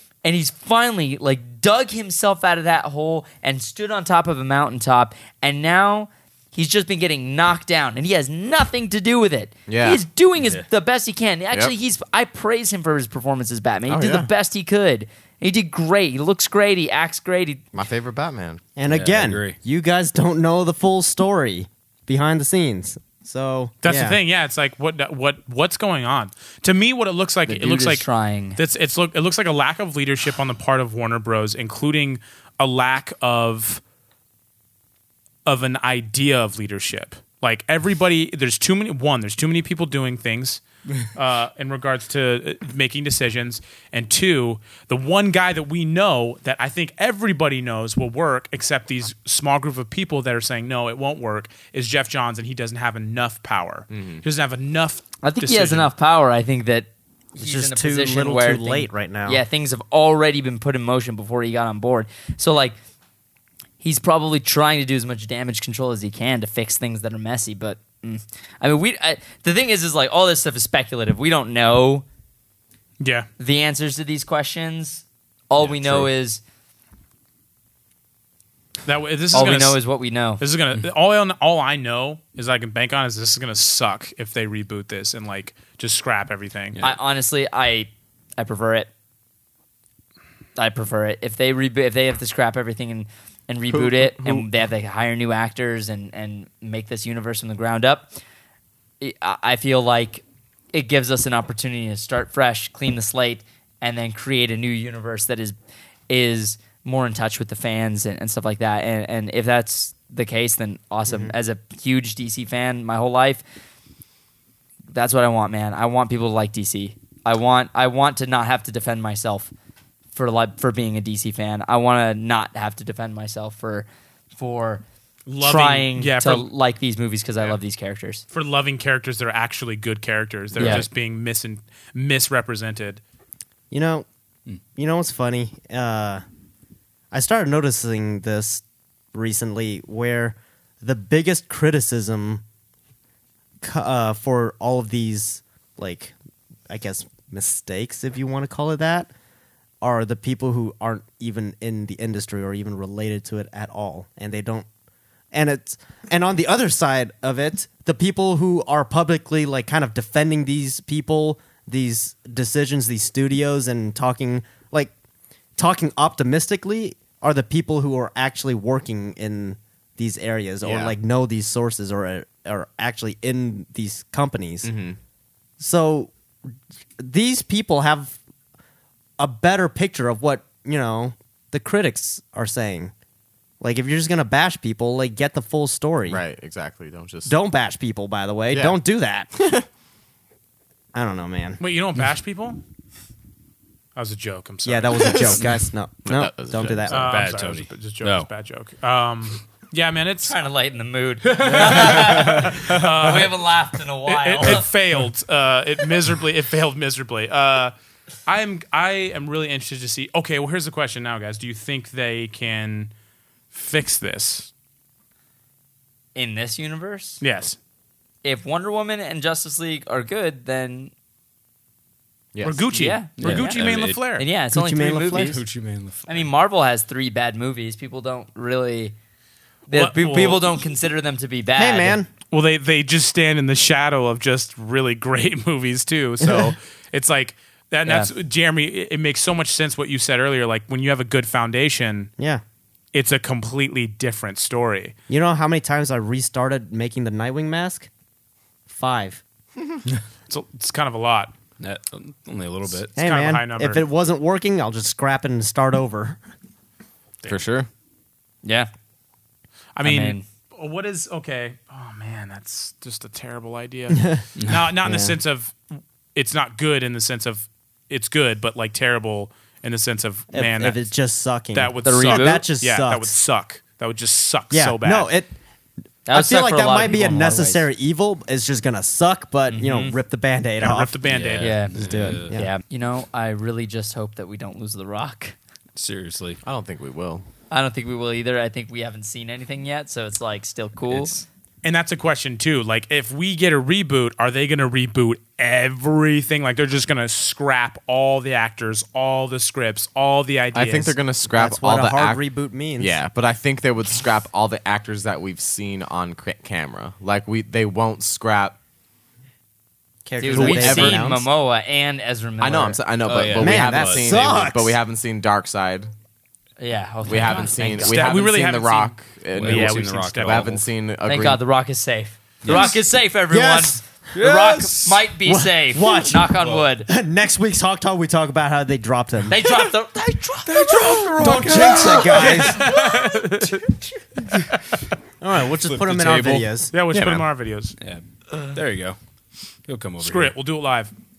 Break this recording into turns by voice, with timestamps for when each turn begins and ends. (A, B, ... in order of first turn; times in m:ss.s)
0:00.2-0:17.6 A
0:09.7-0:10.0 B
0:10.4-0:10.6 C
0:13.9-0:14.3 B
0:17.7-0:18.6 B
0:18.8-0:24.2 D
0:18.9-0:19.6 C
0:23.8-0:28.0 E
0:27.4-0:28.6 A
0:28.6-0:33.8 E
0:35.4-0:40.6 E
0:41.1-0:55.9 E
0:53.9-0:54.2 B
0:55.2-1:02.8 A
0:57.4-0:59.4 D
1:03.8-1:12.0 A
1:13.0-1:13.3 E
1:13.4-1:16.4 A
1:18.8-1:19.8 E
1:19.3-1:20.4 A
1:20.4-1:26.8 E
1:26.8-1:28.9 A
1:30.6-1:38.1 A
1:33.7-1:34.5 B
1:39.0-1:45.6 A
1:46.1-1:53.4 A
1:51.1-1:51.3 D
1:54.9-1:59.5 A
2:00.1-2:04.8 A
2:05.2-2:06.5 E
2:05.4-2:08.2 A
2:08.3-2:13.0 E
2:10.6-2:10.8 C
2:10.6-2:10.9 A
2:13.7-2:14.0 D
2:14.8-2:16.2 D
2:17.1-2:22.4 D
2:23.6-2:26.1 D
2:26.7-2:29.1 D
2:29.8-2:34.7 D
2:35.3-2:44.9 D
2:45.6-2:54.7 D
2:50.6-2:50.9 B
2:54.6-2:55.0 B
2:55.6-2:56.1 D
2:57.0-2:58.2 D
2:59.2-3:02.9 D
3:03.6-3:06.2 D
3:06.1-3:07.3 B
3:07.3-3:09.3 D
3:08.5-3:08.8 B
3:09.4-3:09.6 B
3:10.9-3:11.6 D
3:11.6-3:12.6 E
3:14.0-3:15.4 E
3:14.6-3:17.1 D
3:15.0-3:15.4 B
3:16.0-3:16.9 B
3:16.9-3:18.3 C
3:16.9-3:20.4 E
3:20.3-3:24.7 A
3:21.3-3:22.6 C
3:21.4-3:23.4 E
3:24.0-3:27.7 E
3:28.2-3:32.9 E
3:33.5-3:34.5 E
3:36.1-3:37.2 A
3:37.2-3:37.6 E
3:38.2-3:40.9 A
3:42.3-3:42.7 B
3:42.4-3:44.2 E
3:42.7-3:45.4 A
3:43.2-3:44.0 C
3:44.5-3:45.4 D
3:45.1-3:46.3 C
3:46.1-3:48.9 A
3:49.7-3:52.0 A
3:49.7-3:50.5 E
3:51.6-3:52.1 D
3:52.3-4:02.1 E
3:56.2-3:56.5 D
3:57.8-3:58.1 A
4:02.9-4:04.9 E
4:05.1-4:07.9 D
4:08.7-4:09.2 D
4:10.3-4:11.3 E
4:11.6-4:12.9 C
4:12.9-4:13.8 E
4:13.0-4:16.2 D
4:17.3-4:17.7 B
4:18.4-4:18.7 A
4:19.8-4:25.6 E
4:19.8-4:20.2 A
4:23.9-4:24.2 D
4:24.8-4:25.2 D
4:26.1-4:30.9 E
4:30.3-4:33.1 D
4:31.5-4:35.1 E
4:31.8-4:32.5 A
4:34.5-4:35.3 D
4:36.0-4:37.7 A
4:36.1-4:41.0 D
4:39.5-4:39.9 A
4:40.6-4:41.6 E
4:41.0-4:42.3 C
4:41.4-4:45.4 A
4:41.7-4:42.5 D
4:45.8-4:46.4 C
4:46.4-4:47.2 B
4:47.5-4:51.2 A
4:51.6-5:01.0 E
5:00.5-5:02.2 B
5:01.3-5:03.0 D
5:02.8-5:08.6 B
5:10.0-5:11.2 D
5:10.2-5:12.8 A
5:10.3-5:11.2 B
5:12.4-5:15.9 B
5:13.0-5:14.1 C
5:13.4-5:14.8 D
5:16.6-5:18.3 A
5:17.0-5:21.4 B
5:17.8-5:20.5 E
5:19.3-5:20.6 C
5:21.0-5:26.9 A
5:22.4-5:22.8 C
5:23.3-5:23.8 D
5:24.1-5:25.0 C
5:25.2-5:29.4 D
5:29.3-5:31.1 A
5:30.5-5:32.6 C
5:30.6-5:33.8 E
5:31.1-5:32.7 D
5:34.3-5:34.8 E
5:35.2-5:37.2 D
5:35.6-5:36.5 C
5:36.7-5:37.7 E
5:37.8-5:39.0 C
5:39.7-5:40.3 C
5:40.0-5:40.9 E